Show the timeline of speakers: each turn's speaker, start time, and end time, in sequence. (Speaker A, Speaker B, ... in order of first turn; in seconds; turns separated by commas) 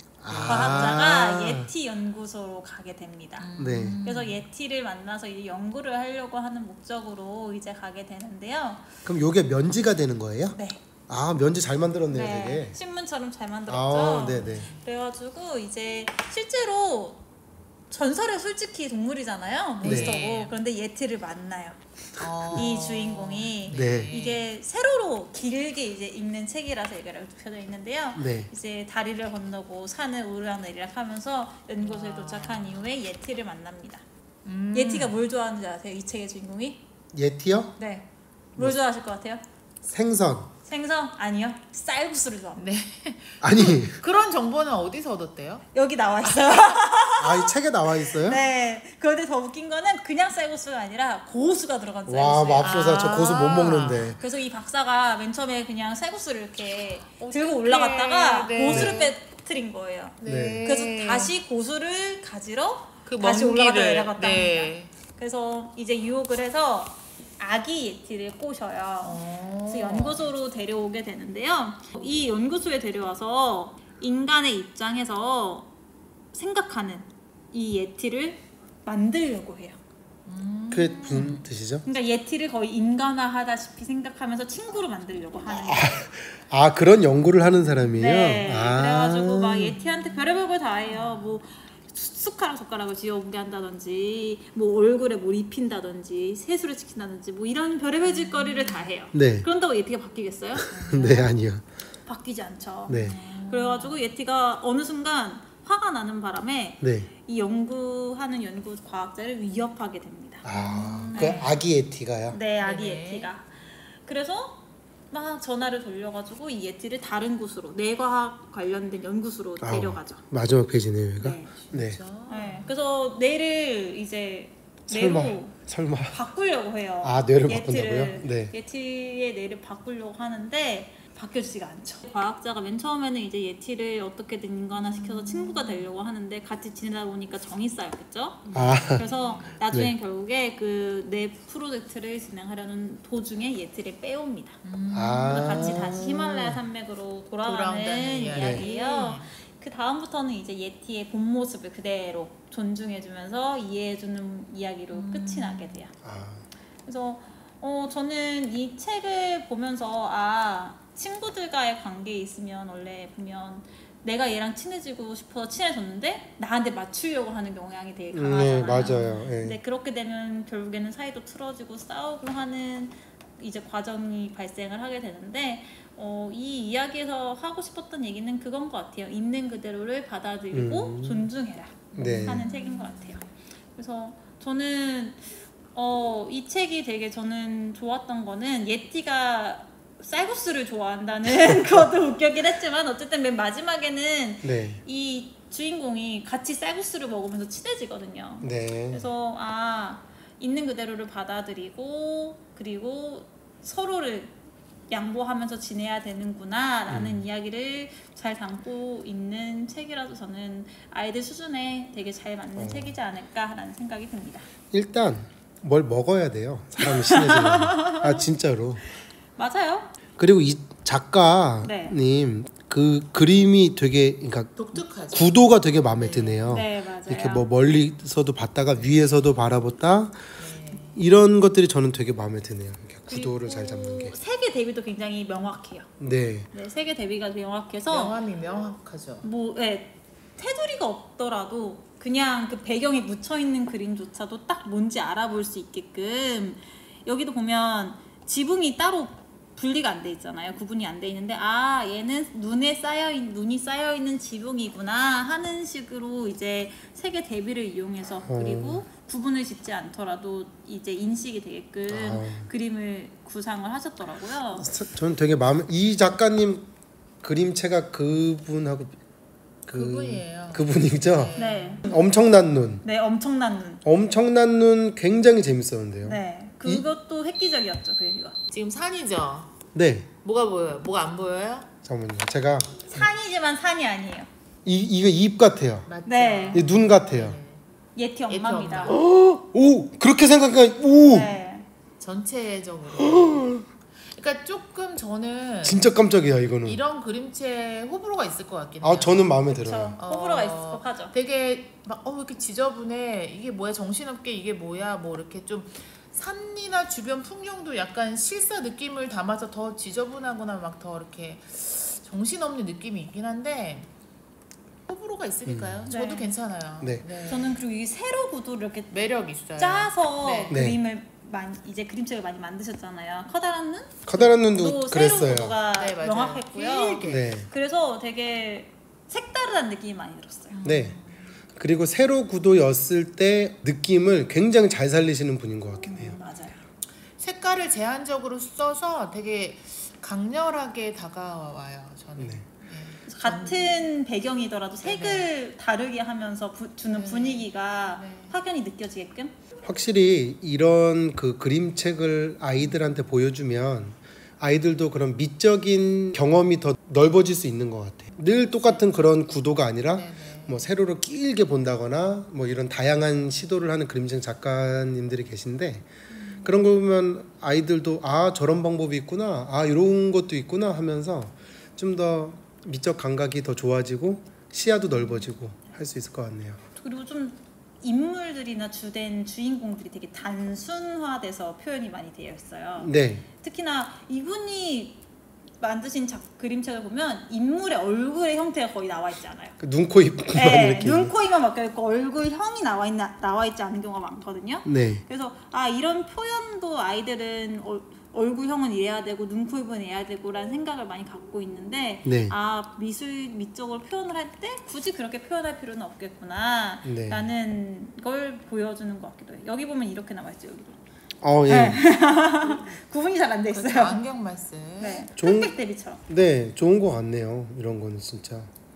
Speaker A: 0.2-1.7, Speaker B: 0.3-1.0, Speaker C: 0.5-3.5, Speaker B: 3.4-4.5, Speaker A: 3.6-4.0, Speaker C: 4.0-8.8, Speaker A: 9.1-10.6, Speaker C: 10.5-10.8, Speaker A: 11.1-12.8, Speaker C: 12.1-17.2, Speaker A: 13.7-14.7, Speaker B: 14.3-14.9, Speaker C: 17.9-21.8, Speaker B: 19.8-20.6, Speaker A: 19.8-20.1, Speaker B: 22.2-24.4, Speaker C: 22.5-34.0, Speaker A: 23.7-24.1, Speaker A: 28.1-28.5, Speaker B: 31.8-32.8, Speaker B: 34.4-35.2, Speaker C: 34.7-36.8, Speaker A: 37.1-37.8, Speaker C: 37.8-39.4, Speaker A: 39.8-40.5, Speaker C: 40.6-42.6, Speaker B: 42.5-45.6, Speaker A: 43.4-44.0, Speaker C: 45.7-53.4, Speaker B: 46.2-46.8, Speaker A: 47.2-48.4, Speaker A: 52.1-54.2, Speaker B: 52.6-54.2, Speaker C: 54.1-75.7, Speaker B: 57.2-59.1, Speaker A: 58.6-59.0, Speaker B: 60.2-61.3, Speaker A: 60.2-60.6, Speaker B: 63.0-64.9, Speaker B: 69.0-70.3, Speaker C: 76.3-79.8, Speaker B: 80.2-81.4, Speaker A: 80.7-81.8, Speaker C: 81.8-86.0, Speaker A: 85.5-89.8, Speaker C: 87.9-101.3, Speaker B: 89.7-91.3, Speaker B: 98.0-98.9, Speaker A: 99.1-99.5, Speaker B: 100.7-101.3, Speaker A: 100.8-101.6, Speaker C: 102.0-110.5, Speaker A: 102.9-103.2, Speaker B: 102.9-104.1, Speaker A: 106.8-107.1, Speaker A: 110.4-112.4, Speaker B: 110.5-111.6, Speaker C: 111.1-111.5, Speaker C: 112.3-120.2, Speaker B: 112.6-113.3, Speaker A: 119.6-122.0, Speaker C: 121.2-121.5, Speaker B: 121.6-122.7, Speaker C: 122.3-125.6, Speaker A: 124.9-126.2, Speaker C: 126.1-144.6, Speaker A: 127.0-128.5, Speaker B: 134.7-135.9, Speaker B: 138.4-139.5, Speaker A: 138.5-139.1, Speaker B: 144.6-146.1, Speaker A: 144.9-146.6, Speaker C: 145.3-155.9, Speaker B: 147.4-149.3, Speaker A: 148.3-148.6, Speaker B: 154.9-155.8, Speaker A: 156.0-156.4, Speaker C: 156.8-183.2, Speaker A: 168.1-169.6, Speaker B: 168.8-169.2, Speaker A: 180.5-181.3, Speaker B: 181.9-183.3, Speaker A: 181.9-182.4, Speaker C: 183.7-204.3, Speaker A: 194.4-194.8, Speaker A: 198.4-199.1, Speaker C: 204.9-214.5, Speaker A: 206.9-207.2, Speaker A: 212.6-212.9, Speaker A: 214.7-218.8, Speaker C: 216.8-218.2, Speaker C: 219.3-219.9, Speaker A: 220.2-230.2, Speaker C: 221.6-222.0, Speaker B: 224.6-226.6, Speaker C: 226.4-227.5, Speaker B: 230.4-231.0, Speaker A: 230.9-234.1, Speaker C: 233.1-235.9, Speaker A: 236.0-236.5, Speaker C: 236.5-238.1, Speaker B: 237.9-239.3, Speaker C: 239.2-264.7, Speaker A: 258.2-258.8, Speaker A: 261.9-262.5, Speaker A: 264.5-266.7, Speaker A: 267.2-269.0, Speaker A: 269.6-272.8, Speaker B: 269.7-271.9, Speaker C: 271.3-271.9, Speaker C: 272.8-273.8, Speaker A: 273.8-276.9, Speaker C: 276.0-278.4, Speaker B: 278.5-279.6, Speaker A: 279.7-280.1, Speaker B: 280.2-281.7, Speaker A: 281.8-282.8, Speaker C: 282.8-284.3, Speaker A: 284.6-285.9, Speaker B: 285.9-287.6, Speaker C: 286.1-286.7, Speaker A: 286.5-287.4, Speaker C: 287.9-289.0, Speaker B: 288.3-289.0, Speaker A: 288.9-291.4, Speaker C: 291.1-291.7, Speaker B: 292.0-296.0, Speaker A: 293.0-293.6, Speaker A: 295.6-296.8, Speaker B: 296.6-299.5, Speaker A: 298.8-300.0, Speaker C: 299.6-301.1, Speaker B: 300.0-313.9, Speaker B: 314.9-317.6, Speaker A: 315.4-315.9, Speaker C: 315.9-316.3, Speaker C: 317.2-318.9, Speaker B: 318.9-320.6, Speaker C: 319.6-330.6, Speaker A: 320.5-320.8, Speaker A: 324.1-325.6, Speaker B: 325.7-327.3, Speaker A: 327.0-327.5, Speaker B: 330.5-331.4, Speaker A: 330.6-331.0, Speaker A: 331.6-336.1, Speaker C: 335.8-336.6, Speaker B: 337.2-343.9, Speaker A: 342.2-342.4, Speaker C: 343.1-349.3, Speaker B: 344.8-345.3, Speaker B: 346.9-348.4, Speaker A: 349.6-365.9, Speaker B: 359.9-360.7, Speaker B: 366.1-366.7, Speaker A: 366.4-376.6, Speaker C: 376.8-385.0, Speaker A: 382.8-383.3, Speaker C: 385.6-389.6, Speaker A: 389.6-391.1, Speaker C: 390.3-410.8, Speaker A: 394.6-395.0, Speaker A: 402.0-402.3, Speaker A: 406.8-407.2, Speaker A: 411.2-411.8, Speaker C: 411.4-414.0, Speaker B: 413.5-415.1, Speaker C: 414.8-416.0, Speaker A: 415.2-415.5, Speaker A: 416.1-418.5